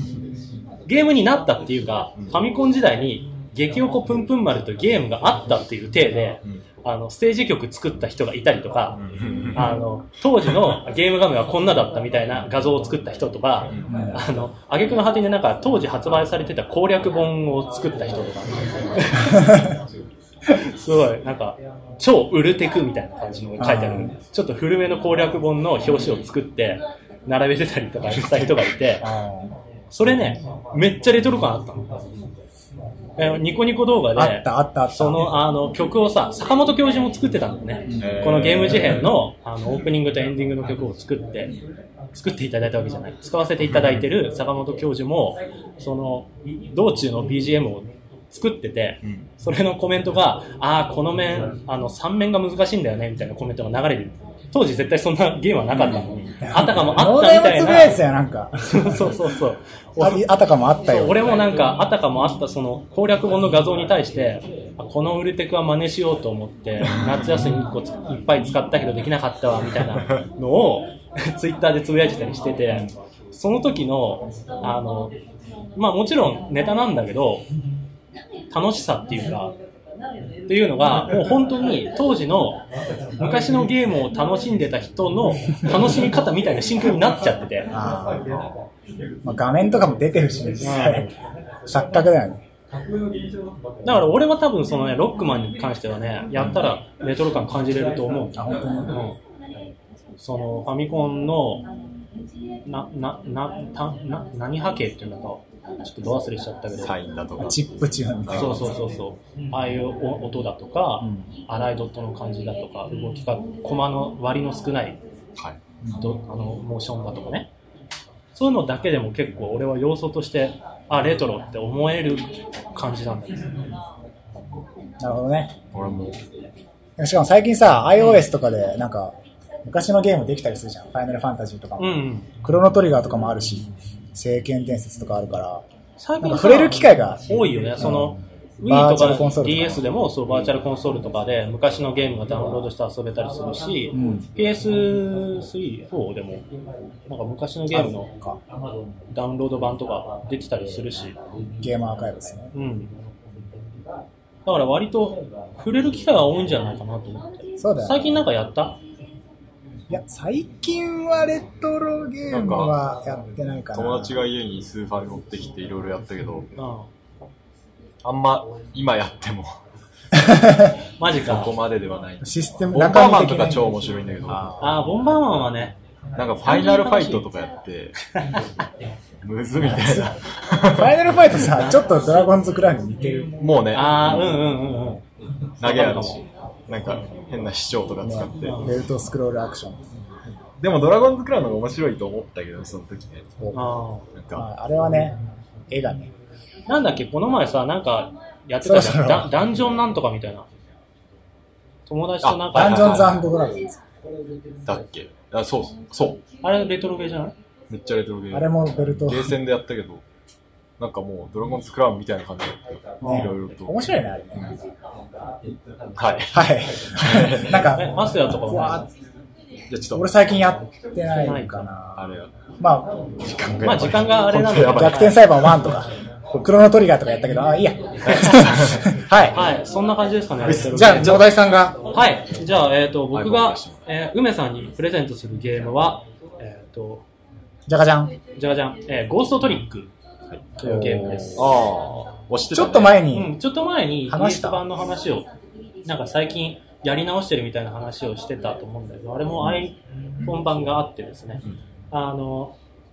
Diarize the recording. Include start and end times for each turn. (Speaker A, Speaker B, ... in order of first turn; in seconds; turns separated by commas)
Speaker A: 0.9-9.0, Speaker B: 9.0-9.8, Speaker A: 9.6-19.6, Speaker B: 13.7-14.1, Speaker C: 13.9-14.2, Speaker A: 20.6-29.1, Speaker C: 23.6-24.1, Speaker C: 29.0-29.6, Speaker A: 29.9-31.9, Speaker A: 33.2-41.5, Speaker C: 34.1-35.3, Speaker C: 37.9-38.1, Speaker B: 38.0-39.1, Speaker A: 42.1-58.0, Speaker B: 43.6-44.0, Speaker B: 49.0-49.3, Speaker C: 56.4-59.1, Speaker A: 58.6-60.3, Speaker C: 60.0-61.2, Speaker A: 60.9-75.1, Speaker B: 66.8-67.6, Speaker A: 75.8-77.5, Speaker A: 78.5-79.5, Speaker A: 80.5-82.6, Speaker A: 83.2-87.7, Speaker C: 87.7-88.3, Speaker B: 88.3-88.6, Speaker C: 89.2-91.1, Speaker A: 90.6-91.1, Speaker C: 91.7-92.4, Speaker A: 93.8-99.2, Speaker C: 98.3-98.9, Speaker A: 100.2-101.7, Speaker A: 102.7-107.0, Speaker B: 106.8-108.7, Speaker C: 107.4-108.8, Speaker A: 108.3-115.0, Speaker C: 111.0-111.3, Speaker C: 115.8-116.1, Speaker A: 116.0-117.5, Speaker A: 118.3-123.5, Speaker C: 125.0-125.6, Speaker B: 125.7-126.2, Speaker C: 127.0-135.7, Speaker A: 128.0-128.2, Speaker A: 131.8-132.3, Speaker A: 136.0-146.4, Speaker C: 136.2-137.2, Speaker C: 137.8-139.8, Speaker C: 143.9-144.3, Speaker A: 147.1-148.1, Speaker C: 147.7-148.4, Speaker A: 149.1-151.2, Speaker C: 151.6-152.5, Speaker A: 152.5-152.9, Speaker A: 154.4-158.8, Speaker C: 157.6-158.1, Speaker C: 159.9-164.2, Speaker B: 162.3-162.8, Speaker B: 163.7-166.5, Speaker A: 166.6-166.9, Speaker B: 168.0-169.5, Speaker C: 170.2-170.8, Speaker A: 171.0-171.5, Speaker B: 171.2-174.5, Speaker C: 172.2-173.7, Speaker C: 174.3-174.8, Speaker A: 174.6-175.8, Speaker B: 176.2-178.0, Speaker A: 176.4-177.2, Speaker B: 179.2-181.0, Speaker C: 179.6-180.1, Speaker C: 180.7-183.3, Speaker A: 181.5-182.1, Speaker B: 183.4-184.4, Speaker A: 183.7-185.0, Speaker B: 185.6-188.6, Speaker A: 185.6-186.2, Speaker C: 188.0-189.9, Speaker A: 188.4-188.7, Speaker B: 190.6-193.3, Speaker A: 193.5-194.1, Speaker B: 194.1-194.5, Speaker C: 194.3-195.2, Speaker C: 195.7-196.1, Speaker A: 196.7-200.5, Speaker C: 198.6-199.3, Speaker A: 201.9-203.2, Speaker B: 202.2-203.2, Speaker C: 202.5-203.8, Speaker B: 204.7-206.2, Speaker A: 206.4-207.3, Speaker B: 207.7-210.0, Speaker C: 208.3-209.4, Speaker B: 210.8-213.8, Speaker A: 213.0-213.3, Speaker C: 213.0-214.6, Speaker B: 216.0-217.7, Speaker C: 216.3-218.9, Speaker A: 217.7-218.8, Speaker B: 219.7-220.1, Speaker C: 219.9-222.0, Speaker A: 221.2-221.7, Speaker B: 222.0-222.3, Speaker C: 222.6-222.9, Speaker B: 223.2-225.7, Speaker A: 223.6-225.2, Speaker C: 224.7-229.4, Speaker B: 228.0-228.8, Speaker A: 229.3-231.2, Speaker B: 230.4-231.3, Speaker C: 230.7-231.8, Speaker A: 231.9-237.1, Speaker B: 233.1-233.8, Speaker C: 237.7-238.2, Speaker A: 238.4-239.9, Speaker B: 240.3-243.0, Speaker A: 240.6-241.5, Speaker C: 242.5-243.3, Speaker A: 243.1-245.3, Speaker C: 244.1-244.6, Speaker A: 245.8-252.6